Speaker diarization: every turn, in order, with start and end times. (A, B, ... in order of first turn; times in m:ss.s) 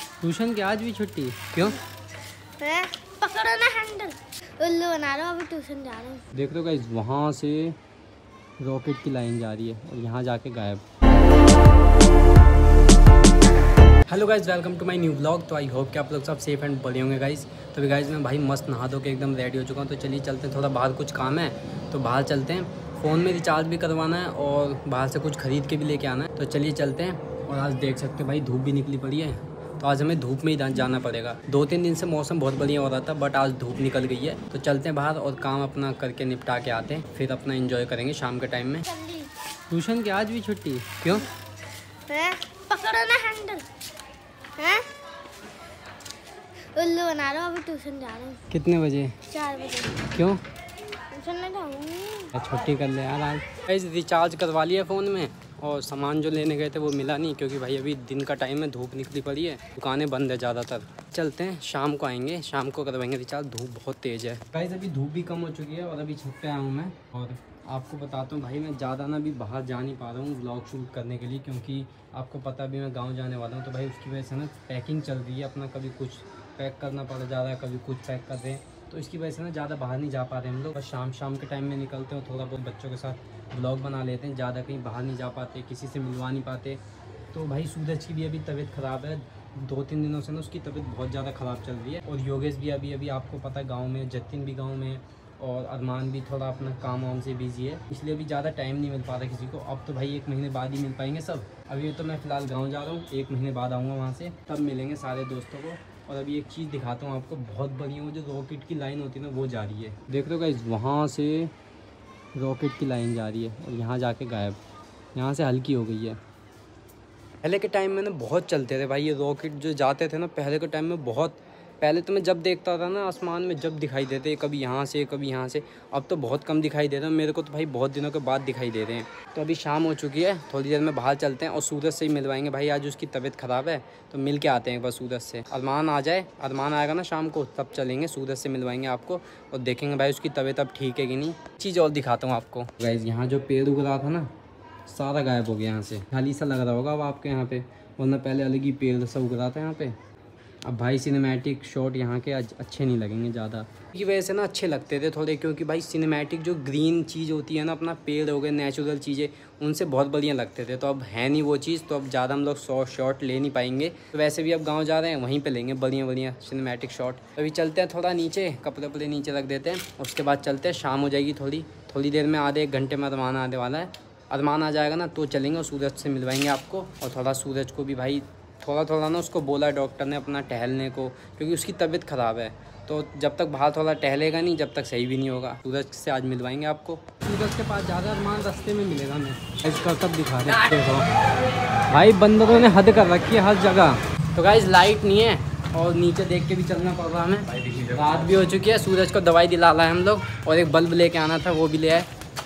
0:00.2-0:01.8 A
0:02.6-0:06.2 B
0:06.3-0:07.8 A
0:08.6-0:10.8 A
0:14.1-0:38.8 A
0:38.8-0:39.3 B
0:39.7-0:41.3 A
0:42.1-0:43.7 B
0:44.6-0:44.9 B
0:46.7-0:48.5 B
0:48.5-0:49.2 A
0:49.3-0:50.0 B
0:50.0-0:50.4 A
0:51.1-0:52.4 B
0:52.3-1:26.8 A
1:27.3-1:51.5 A
1:52.3-1:54.6 A
1:55.1-1:56.2 A
1:57.4-2:24.3 A
2:24.8-2:30.0 A
2:30.6-3:11.1 A
3:11.9-3:22.1 A